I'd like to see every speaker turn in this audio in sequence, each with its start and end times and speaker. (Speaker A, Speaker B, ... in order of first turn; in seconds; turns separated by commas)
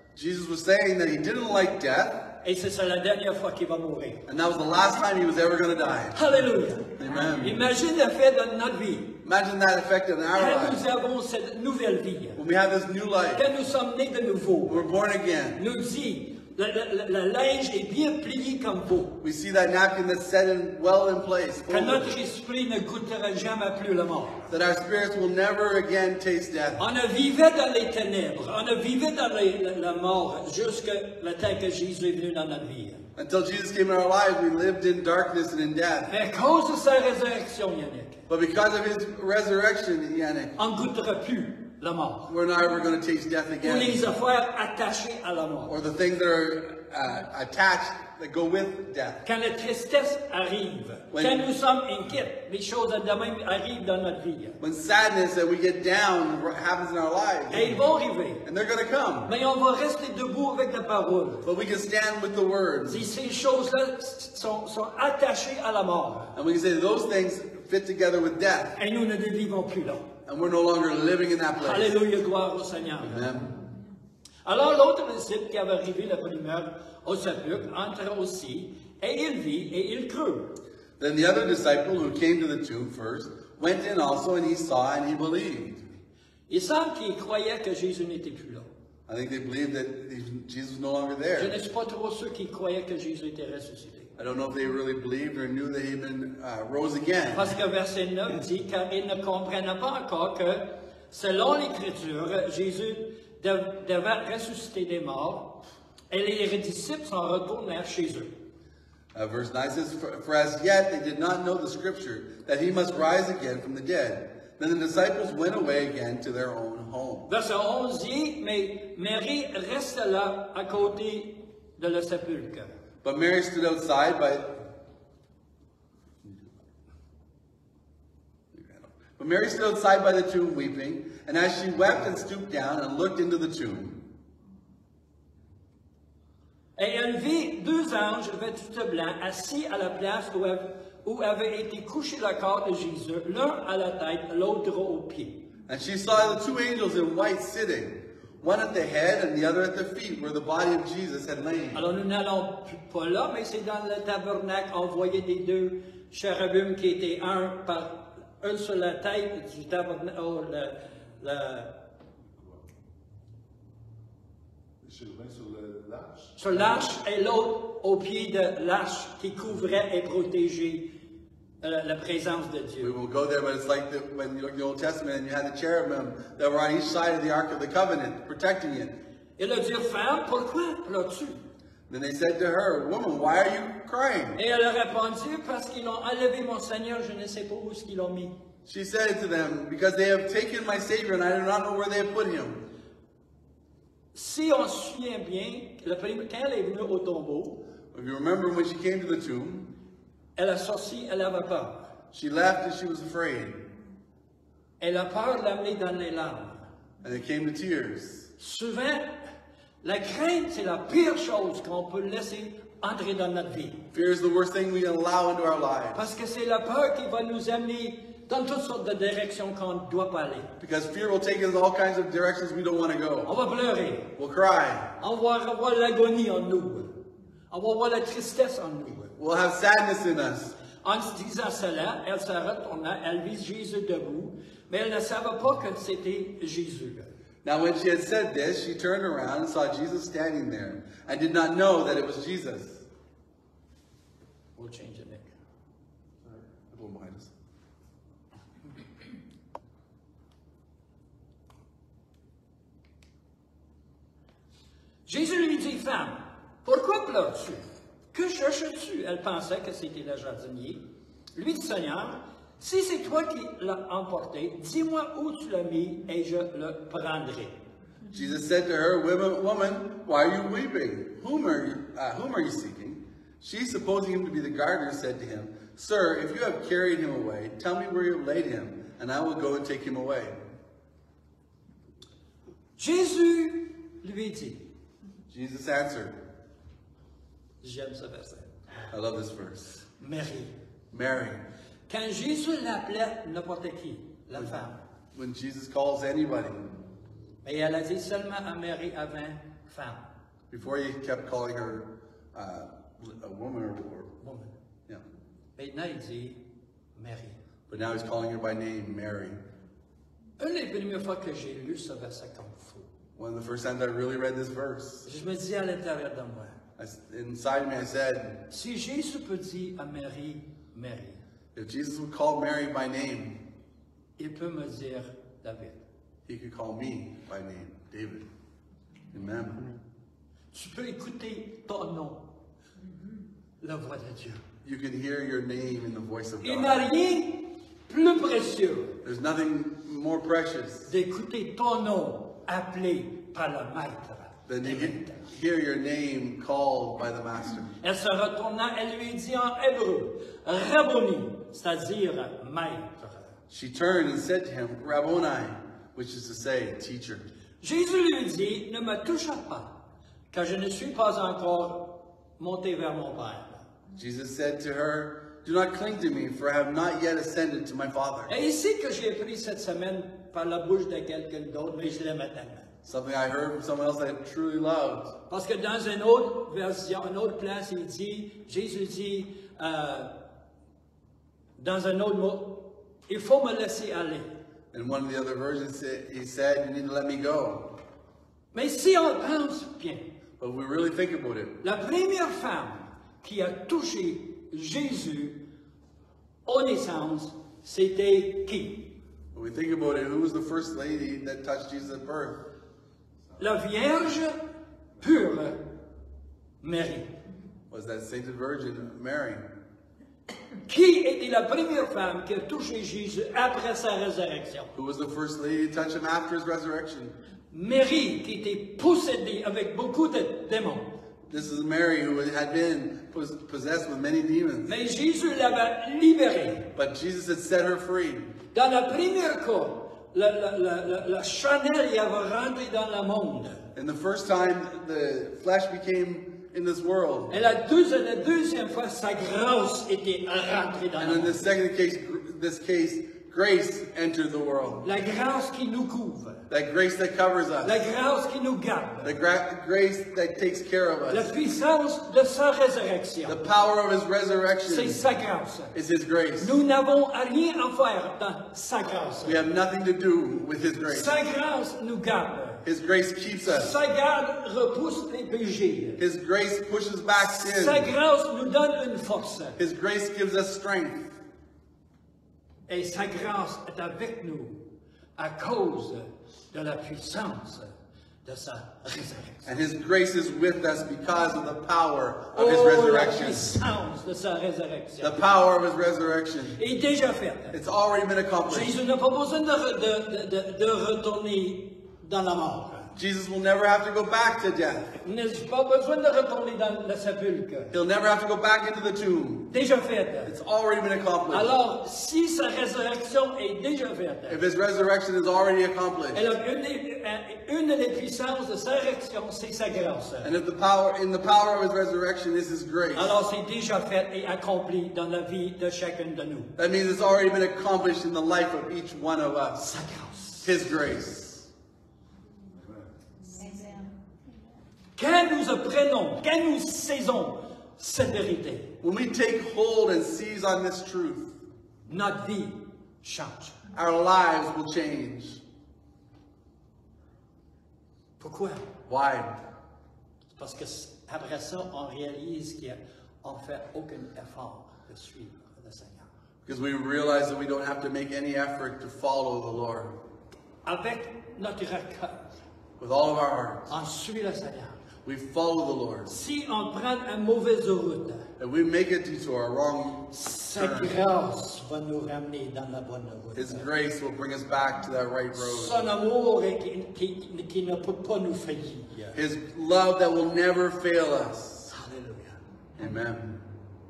Speaker A: 0.1-2.4, Speaker B: 2.4-4.3, Speaker A: 4.3-6.3, Speaker B: 6.1-9.2, Speaker A: 7.0-7.6, Speaker A: 9.2-10.8, Speaker B: 10.3-12.4, Speaker A: 12.3-13.4, Speaker B: 13.3-14.9, Speaker A: 14.6-15.6, Speaker B: 15.6-19.2, Speaker A: 19.2-22.1, Speaker B: 21.7-24.4, Speaker A: 24.5-26.8, Speaker B: 26.8-33.0, Speaker A: 33.1-36.1, Speaker B: 36.1-38.2, Speaker A: 38.3-40.5, Speaker B: 40.5-42.3, Speaker A: 42.3-44.1, Speaker B: 43.6-45.8, Speaker A: 45.6-49.2, Speaker B: 49.2-54.6, Speaker A: 51.1-51.5, Speaker A: 54.6-57.8, Speaker B: 57.5-58.4, Speaker A: 58.4-59.3, Speaker B: 59.2-61.5, Speaker A: 61.4-63.1, Speaker B: 62.9-66.3, Speaker A: 66.3-68.8, Speaker B: 68.8-70.1, Speaker A: 70.2-72.0, Speaker B: 71.6-73.3, Speaker A: 73.0-73.6, Speaker B: 74.4-80.6, Speaker A: 81.0-86.0, Speaker B: 86.5-88.7, Speaker A: 89.1-91.6, Speaker B: 91.4-94.1, Speaker A: 94.2-97.5, Speaker B: 97.3-108.3, Speaker A: 109.1-117.3, Speaker B: 117.3-122.7, Speaker A: 123.0-124.7, Speaker A: 128.5-134.0, Speaker B: 136.8-145.4, Speaker A: 145.7-151.8, Speaker B: 151.7-161.8, Speaker C: 164.8-166.9, Speaker B: 166.4-171.0, Speaker B: 171.6-172.9, Speaker A: 172.8-179.0, Speaker B: 179.4-181.4, Speaker A: 181.9-184.4, Speaker B: 184.3-188.3, Speaker A: 188.6-192.6, Speaker B: 194.1-197.6, Speaker A: 197.9-199.7, Speaker B: 200.3-201.9, Speaker A: 202.1-203.7, Speaker B: 204.8-206.7, Speaker A: 207.0-208.3, Speaker B: 208.4-213.8, Speaker A: 213.9-216.1, Speaker B: 215.9-220.5, Speaker A: 220.6-223.3, Speaker B: 223.2-224.1, Speaker A: 224.2-224.9, Speaker B: 225.0-229.2, Speaker A: 229.2-230.6, Speaker B: 230.8-237.1, Speaker A: 237.4-242.9, Speaker B: 244.6-245.3, Speaker A: 246.7-247.3, Speaker B: 255.1-260.8, Speaker B: 261.3-267.6, Speaker A: 268.1-280.4, Speaker B: 282.8-284.7, Speaker A: 285.3-286.2, Speaker B: 287.6-288.6, Speaker A: 288.9-289.7, Speaker B: 289.8-290.5, Speaker A: 290.9-291.4, Speaker B: 291.9-294.8, Speaker A: 295.1-296.8, Speaker B: 297.4-300.1, Speaker A: 300.5-304.1, Speaker B: 304.2-304.5, Speaker B: 305.6-306.4, Speaker B: 306.9-307.4, Speaker A: 307.7-309.4, Speaker B: 310.4-312.9, Speaker A: 313.1-315.1, Speaker B: 315.0-316.6, Speaker A: 316.8-318.4, Speaker B: 318.5-321.2, Speaker A: 321.5-323.4, Speaker B: 324.2-325.8, Speaker A: 326.2-328.2, Speaker A: 329.1-329.8, Speaker B: 330.5-332.3, Speaker B: 333.6-334.4, Speaker A: 334.6-336.9, Speaker B: 336.4-339.0, Speaker A: 339.0-340.9, Speaker B: 340.9-345.2, Speaker A: 344.5-347.8, Speaker B: 347.8-353.3, Speaker A: 353.5-357.3, Speaker B: 357.6-359.8, Speaker B: 360.3-363.7, Speaker A: 363.9-368.3, Speaker B: 368.3-372.7, Speaker A: 372.8-375.1, Speaker B: 375.3-380.2, Speaker B: 381.6-384.3, Speaker A: 384.7-387.8, Speaker B: 388.5-390.1, Speaker A: 390.4-391.6, Speaker B: 391.6-395.4, Speaker B: 396.4-398.9, Speaker A: 399.3-402.5, Speaker B: 403.4-404.4, Speaker B: 405.0-405.7, Speaker B: 406.6-407.1, Speaker A: 407.7-409.4, Speaker B: 410.6-414.7, Speaker A: 414.7-417.1, Speaker B: 417.5-420.9, Speaker A: 421.3-424.7, Speaker B: 424.6-426.7, Speaker A: 426.7-428.3, Speaker B: 428.5-433.6, Speaker A: 433.7-437.3, Speaker B: 437.3-441.4, Speaker A: 441.0-444.8, Speaker B: 444.8-446.4, Speaker A: 446.5-447.8, Speaker B: 447.6-449.1, Speaker A: 449.0-451.3, Speaker B: 451.1-453.4, Speaker A: 453.2-455.0, Speaker B: 454.7-455.8, Speaker A: 455.7-456.6, Speaker B: 456.4-459.5, Speaker A: 459.2-461.2, Speaker B: 460.9-462.6, Speaker A: 462.6-463.7, Speaker B: 463.4-466.0, Speaker A: 466.0-467.9, Speaker B: 467.2-469.6, Speaker A: 469.6-471.2, Speaker B: 472.7-474.6, Speaker B: 475.2-477.7, Speaker B: 478.2-479.5, Speaker A: 479.4-483.6, Speaker B: 482.3-485.2, Speaker A: 485.0-486.6, Speaker B: 486.5-487.6, Speaker A: 487.5-488.7, Speaker B: 488.5-492.9, Speaker A: 492.9-494.9, Speaker B: 495.0-497.7, Speaker A: 497.7-499.5, Speaker B: 499.5-500.3, Speaker A: 500.2-501.5, Speaker B: 501.3-504.4, Speaker A: 504.3-506.2, Speaker B: 506.1-510.3, Speaker A: 510.2-513.1, Speaker B: 512.9-516.5, Speaker A: 516.6-519.7, Speaker B: 519.6-520.5, Speaker A: 520.4-521.5, Speaker B: 525.0-528.8, Speaker A: 528.8-531.4, Speaker B: 531.9-533.6, Speaker A: 533.7-535.4, Speaker B: 538.2-538.7, Speaker A: 538.9-539.4, Speaker B: 540.3-546.1, Speaker A: 546.5-550.0, Speaker B: 550.6-552.3, Speaker A: 552.8-553.7, Speaker B: 553.7-554.8, Speaker A: 555.0-556.1, Speaker B: 556.1-558.3, Speaker A: 558.4-561.0, Speaker B: 560.1-563.7, Speaker A: 563.3-565.8, Speaker B: 565.3-569.2, Speaker A: 569.1-571.7, Speaker B: 571.7-572.4, Speaker A: 572.8-573.4